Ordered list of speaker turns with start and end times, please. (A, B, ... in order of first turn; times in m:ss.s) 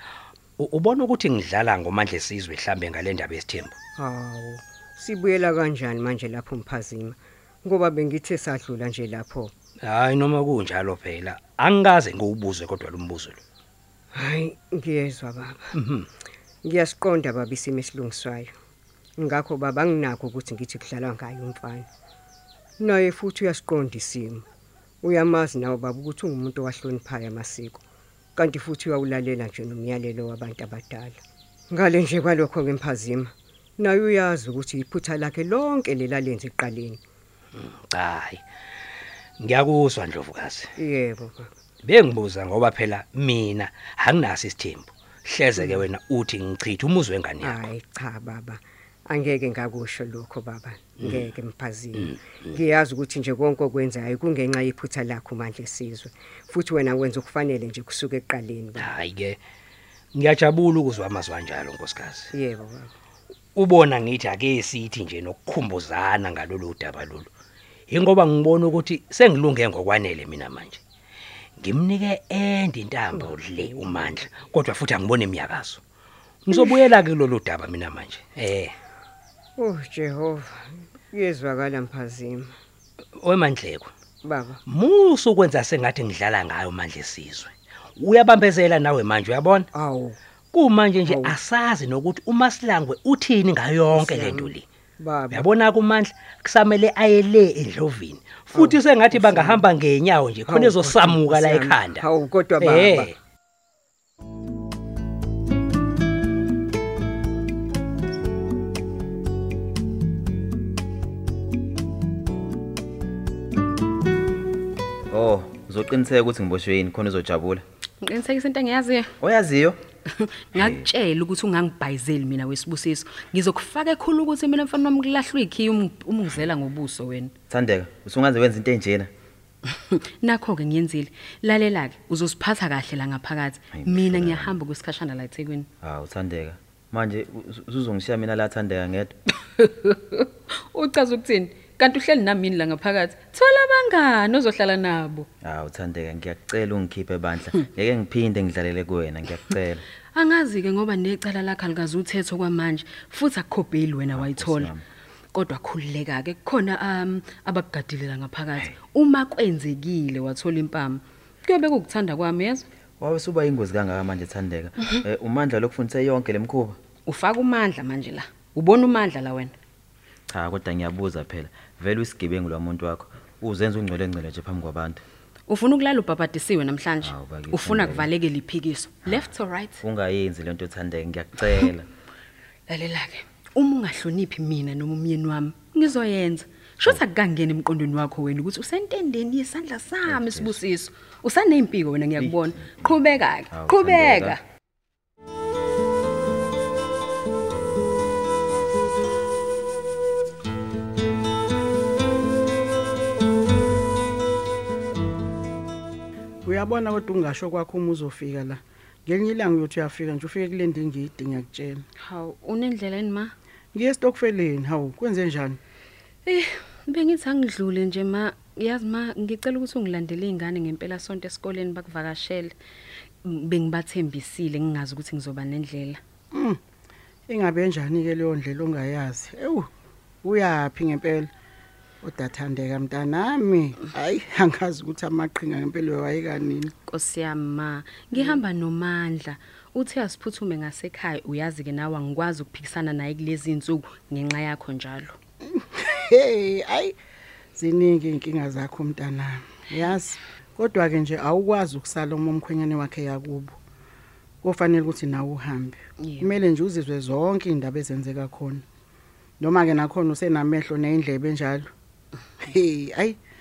0:00.6-0:03.8 A
0:04.0-0:09.5 B
0:09.8-0:13.4 A
0:14.1-0:15.6 B
0:15.8-0:16.0 A
0:16.6-0:18.5 B
0:19.2-0:21.8 B
0:22.8-0:24.4 B
0:25.0-0:27.8 B
0:28.4-0:31.2 B
0:31.7-0:37.0 B
0:37.6-0:38.4 A
0:39.4-0:40.7 A
0:40.8-0:41.5 B
0:41.8-0:47.7 A
0:45.6-0:45.8 B
0:47.4-0:58.9 B
0:51.0-0:51.3 A
0:52.0-0:52.6 A
0:58.8-0:59.4 A
1:00.1-1:02.3 A
1:02.3-1:02.9 B
1:03.6-1:07.3 A
1:07.9-1:10.8 A
1:11.6-1:15.8 A
1:13.1-1:14.2 B
1:16.4-1:18.8 A
1:19.6-1:22.5 B
1:23.2-1:23.9 A
1:24.2-1:24.6 B
1:24.6-1:29.7 A
1:29.7-1:30.2 B
1:30.5-1:34.6 A
1:31.0-1:31.4 B
1:33.9-1:35.5 B
1:35.3-1:43.1 A
1:38.6-1:39.6 B
1:40.4-1:43.1 B
1:55.1-1:57.6 C
1:58.0-1:59.1 D
1:59.2-1:59.8 C
2:00.1-2:07.3 D
2:00.5-2:00.8 C
2:07.5-2:09.1 C
2:09.9-2:15.7 D
2:13.7-2:14.6 C
2:15.8-2:19.1 C
2:19.5-2:25.3 D
2:25.4-2:29.8 C
2:30.1-2:34.7 D
2:34.1-2:34.8 C
2:35.3-2:42.6 D
2:43.0-2:46.8 C
2:47.0-2:49.5 D
2:50.3-2:55.0 C
2:55.5-2:59.8 D
2:57.0-2:58.1 C
2:59.8-3:01.9 C
3:02.7-3:14.4 D
3:10.0-3:10.6 C
3:12.2-3:12.9 C
3:13.5-3:14.4 C
3:26.4-3:31.8 E
3:32.0-3:33.3 D
3:33.7-3:35.6 E
3:36.2-3:42.5 D
3:43.2-3:46.0 D
3:46.3-3:46.6 E
3:47.3-3:49.7 E
3:50.2-3:51.3 E
3:52.0-3:56.7 E
3:56.9-4:05.2 D
4:05.4-4:06.9 E
4:07.5-4:13.5 E
4:14.4-4:18.6 E
4:16.0-4:16.3 D
4:19.4-4:21.7 E
4:22.4-4:23.2 E